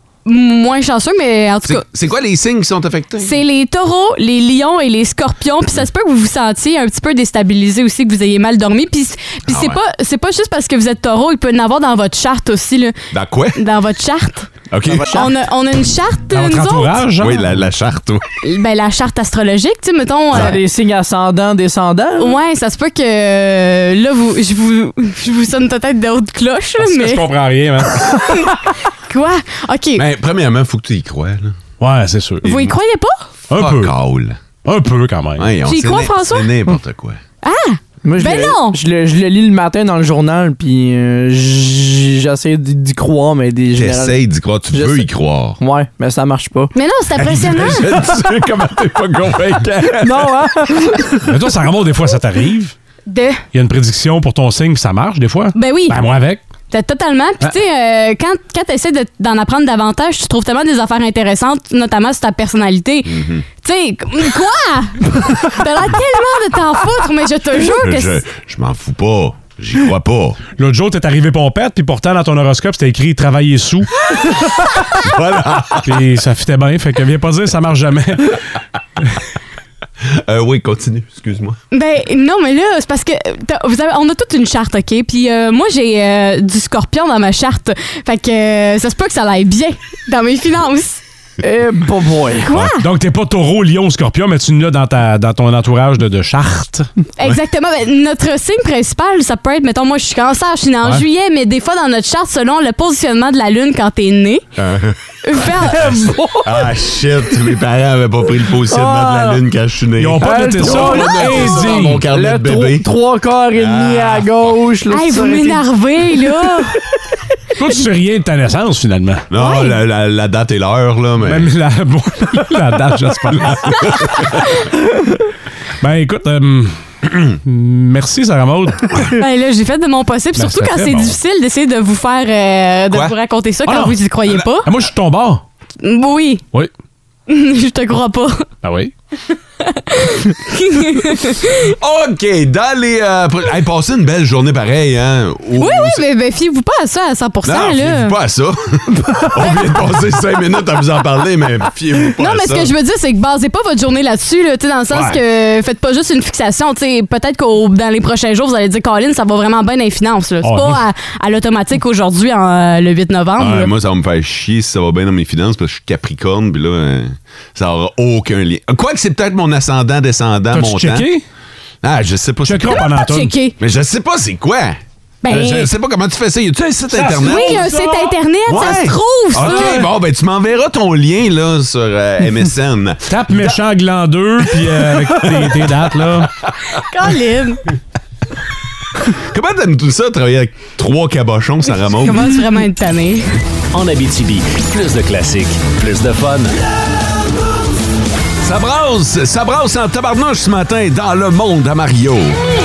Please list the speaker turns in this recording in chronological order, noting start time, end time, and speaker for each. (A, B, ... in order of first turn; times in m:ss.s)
0:00.2-0:01.8 A
0:01.6-0:03.3 B
0:03.2-0:13.0 A
0:09.5-0:09.8 B
0:13.1-0:13.6 B
0:13.6-0:14.5 A
0:14.7-0:15.3 B
0:14.9-0:15.2 C
0:15.1-0:17.0 A
0:16.3-0:17.4 D
0:17.2-0:18.2 B
0:18.4-0:20.6 A
0:20.3-0:22.4 C
0:22.2-0:27.2 A
0:26.8-0:28.0 D
0:28.2-0:28.5 A
0:29.1-0:30.0 A
0:30.0-0:31.6 B
0:31.8-0:32.6 D
0:32.4-0:33.2 A
0:33.5-0:33.9 D
0:33.5-0:34.4 B
0:34.6-0:35.5 D
0:35.4-0:37.2 B
0:35.6-0:36.5 A
0:37.4-0:38.8 A
0:38.0-0:44.2 C
0:43.8-0:45.6 B
0:44.7-0:46.7 C
0:46.7-0:48.0 A
0:47.2-0:50.4 B
0:50.0-0:51.2 C
0:51.2-0:52.7 D
0:53.1-0:53.4 A
0:53.5-0:56.4 D
0:55.5-0:56.0 A
0:56.7-1:08.2 A
1:03.1-1:03.4 B
1:07.8-1:10.4 B
1:10.6-1:13.9 D
1:15.0-1:15.9 B
1:15.8-1:18.4 D
1:20.2-1:21.6 B
1:21.7-1:31.0 A
1:31.4-1:32.5 C
1:32.4-1:32.8 A
1:32.7-1:36.9 D
1:37.2-1:44.4 A
1:44.6-1:45.0 B
1:45.2-1:46.0 A
1:45.7-1:46.6 C
1:46.4-1:52.8 B
1:48.7-1:49.4 C
1:50.0-1:52.0 D
1:50.2-1:55.6 C
1:53.5-1:54.3 B
1:54.9-1:56.8 A
1:57.6-1:59.2 D
1:59.3-2:01.5 B
1:59.3-1:59.8 A
2:01.2-2:04.3 D
2:05.8-2:09.2 D
2:09.2-2:14.7 A
2:10.4-2:11.1 D
2:13.6-2:14.0 D
2:14.6-2:15.4 D
2:15.8-2:16.4 A
2:17.3-2:18.5 A
2:18.6-2:18.9 D
2:19.6-2:21.7 A
2:21.6-2:26.0 B
2:25.6-2:28.2 A
2:27.4-2:32.7 B
2:32.2-2:43.7 A
2:40.4-2:40.8 D
2:43.4-2:51.1 B
2:50.5-2:51.2 D
2:51.8-2:52.8 B
2:52.4-2:53.3 D
2:52.7-2:53.5 A
2:53.6-2:57.7 B
2:55.2-2:55.7 A
2:56.9-2:58.1 D
2:57.2-2:59.8 A
2:58.5-3:03.6 B
2:59.4-2:59.8 D
3:03.1-3:06.3 D
3:05.2-3:05.6 B
3:06.9-3:07.6 A
3:09.1-3:12.3 B
3:11.9-3:13.3 A
3:13.7-3:16.6 E
3:18.4-3:22.4 B